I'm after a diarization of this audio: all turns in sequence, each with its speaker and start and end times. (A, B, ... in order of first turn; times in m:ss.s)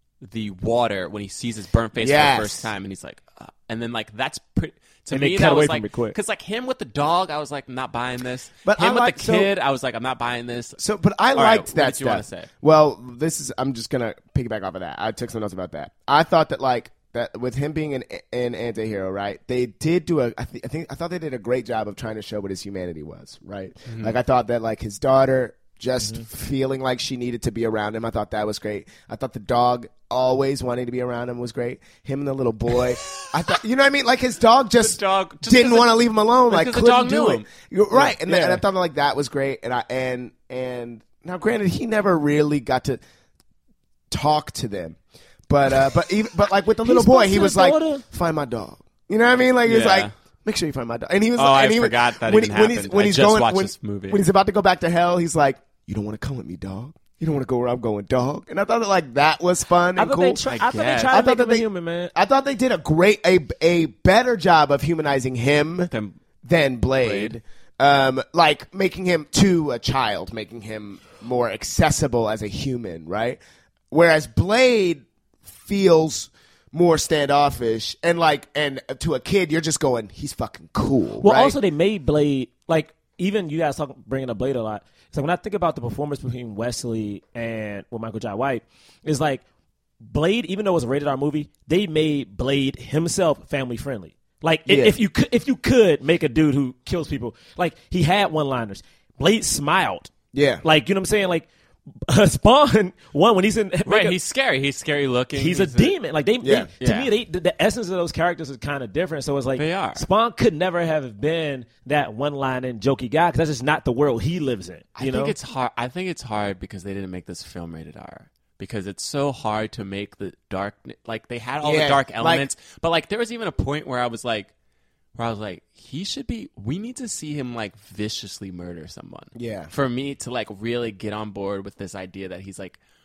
0:00.2-0:10.8 A
0:02.0-0:02.7 B
0:05.1-0:06.2 C
0:08.6-0:09.5 B
0:10.8-0:43.0 B
0:11.3-0:12.5 A
0:23.9-0:24.2 A
0:34.8-0:37.5 A
0:37.9-0:38.6 C
0:44.1-0:45.0 B
0:45.5-1:00.4 B
0:46.8-0:48.0 C
0:49.6-0:50.1 A
0:51.4-0:54.2 A
1:00.0-1:02.1 C
1:00.4-1:01.2 A
1:01.1-1:05.9 B
1:05.9-1:06.2 A
1:06.4-1:13.4 B
1:07.0-1:07.4 A
1:13.9-1:21.6 B
1:21.2-1:29.4 C
1:30.0-1:40.1 C
1:34.6-1:35.0 B
1:40.3-1:40.6 B
1:40.6-1:41.5 C
1:42.0-1:44.2 C
1:43.8-1:46.0 A
1:45.4-1:55.3 C
1:46.4-1:46.7 B
1:46.8-1:47.1 A
1:49.5-1:50.0 A
1:55.0-2:04.5 A
2:01.6-2:02.4 B
2:05.2-2:12.8 A
2:09.4-2:09.7 B